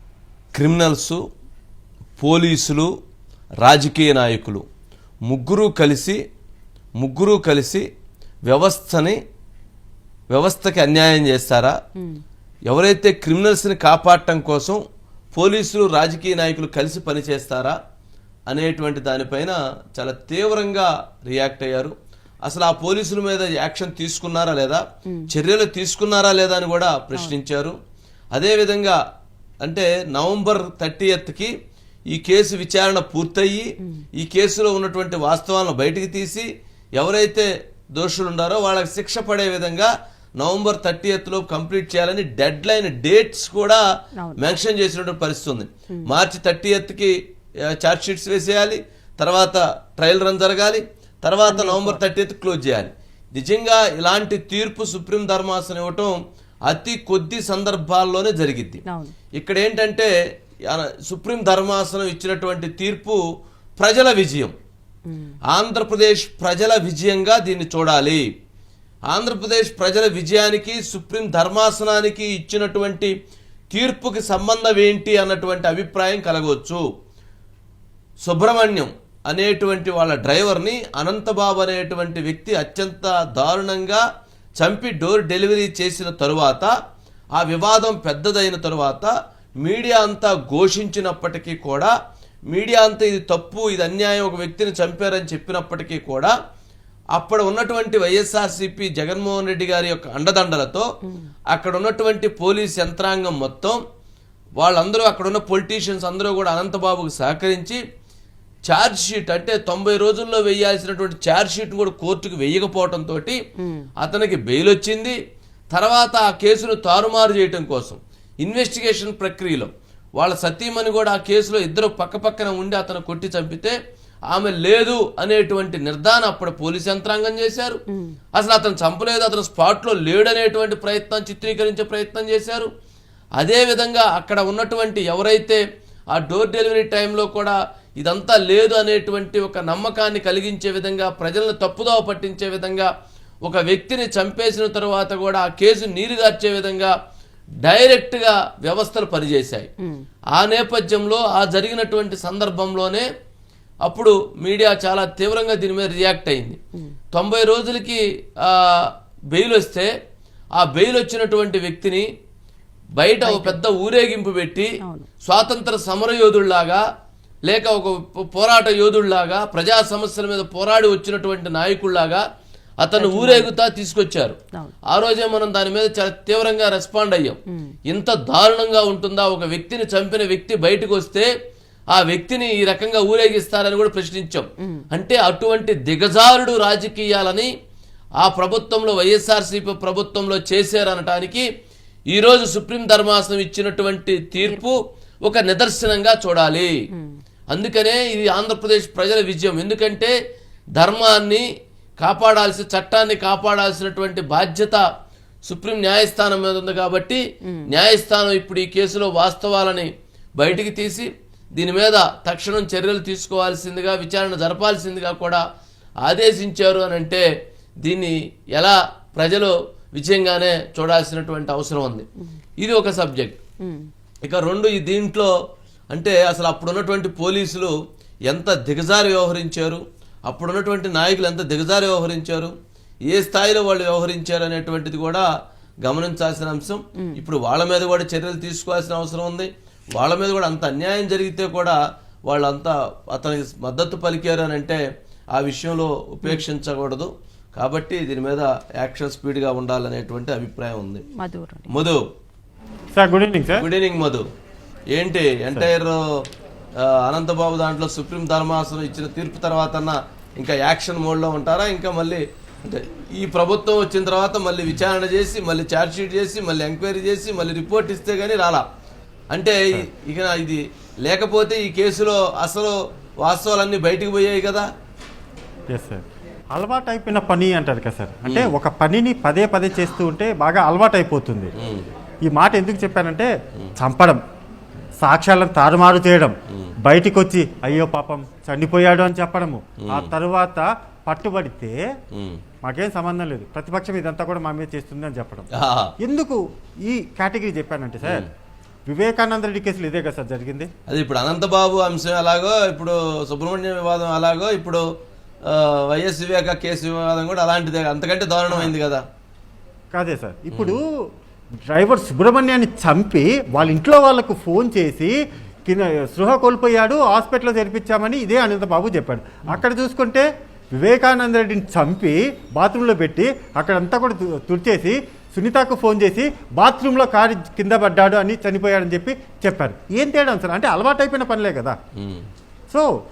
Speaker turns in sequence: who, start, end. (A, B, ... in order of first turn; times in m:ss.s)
0:00.6-0:01.2 A
0:02.2-0:02.9 A
0:03.6-0:04.6 A
0:05.3-0:06.2 A
0:07.0-0:07.8 A
0:08.5-0:09.2 A
0:10.3-0:11.7 A
0:12.7-0:14.8 A
0:15.3-0:17.8 A
0:18.5-0:21.9 A
0:22.5-0:27.8 A
0:28.3-0:29.0 A
0:29.6-0:31.5 A
0:32.1-0:43.8 A
0:44.4-0:47.1 A
0:47.7-0:56.1 A
0:51.5-0:52.0 B
0:56.7-0:58.8 A
0:58.9-0:59.1 B
0:59.4-1:00.1 A
1:00.7-1:03.2 A
1:03.8-1:04.5 A
1:05.1-1:05.4 B
1:05.5-1:08.2 A
1:09.1-1:13.1 A
1:13.7-1:16.8 A
1:18.2-1:24.0 A
1:24.6-1:26.7 A
1:27.4-1:29.1 A
1:29.6-1:31.9 A
1:32.5-1:36.3 A
1:37.1-1:40.9 A
1:41.5-1:43.8 A
1:44.6-1:47.8 A
1:48.7-1:53.4 A
1:53.6-1:53.9 B
1:54.0-1:55.2 A
1:55.7-2:03.8 A
2:04.3-2:07.8 A
2:08.3-2:12.7 A
2:13.4-2:15.6 A
2:16.1-2:22.9 A
2:23.4-2:26.9 A
2:27.6-2:29.7 A
2:30.3-2:33.1 A
2:33.8-2:36.6 A
2:37.1-2:39.9 A
2:40.6-2:42.1 A
2:43.0-2:44.7 A
2:43.2-2:43.6 B
2:44.8-2:45.1 B
2:45.2-2:46.8 A
2:47.5-2:52.2 A
2:52.8-2:54.4 A
2:53.0-2:53.5 B
2:54.9-3:01.3 A
3:01.9-3:07.5 A
3:08.2-3:11.4 A
3:12.1-3:16.7 A
3:14.4-3:14.7 B
3:17.5-3:20.1 A
3:20.8-3:21.4 A
3:22.0-3:24.8 A
3:25.4-3:35.4 A
3:36.0-3:37.2 A
3:37.8-3:42.0 A
3:42.6-3:43.4 A
3:43.6-3:43.9 B
3:44.2-3:45.3 A
3:45.9-3:47.7 A
3:48.3-3:52.5 A
3:53.1-3:55.2 A
3:55.8-4:04.8 A
4:05.3-4:11.0 A
4:11.2-4:11.7 B
4:11.7-4:12.0 A
4:12.9-4:13.6 C
4:13.6-4:14.2 A
4:14.9-4:16.0 A
4:16.8-4:28.6 A
4:29.3-4:34.7 A
4:35.7-4:36.0 C
4:36.5-4:41.5 C
4:38.2-4:38.5 A
4:41.6-4:41.9 A
4:42.2-4:44.2 C
4:45.0-4:46.3 C
4:46.9-4:51.8 C
4:49.8-4:50.1 A
4:52.1-4:52.4 A
4:52.6-4:55.5 C
4:55.5-4:55.9 A
4:56.0-4:58.3 C
4:58.0-4:58.3 A
4:58.9-5:00.7 C
5:00.9-5:04.8 A
5:05.5-5:09.0 A
5:08.5-5:08.7 C
5:09.9-5:10.8 C
5:10.5-5:10.8 A
5:11.7-5:15.1 C
5:15.6-5:20.2 C
5:20.8-5:31.8 C
5:32.0-5:32.2 A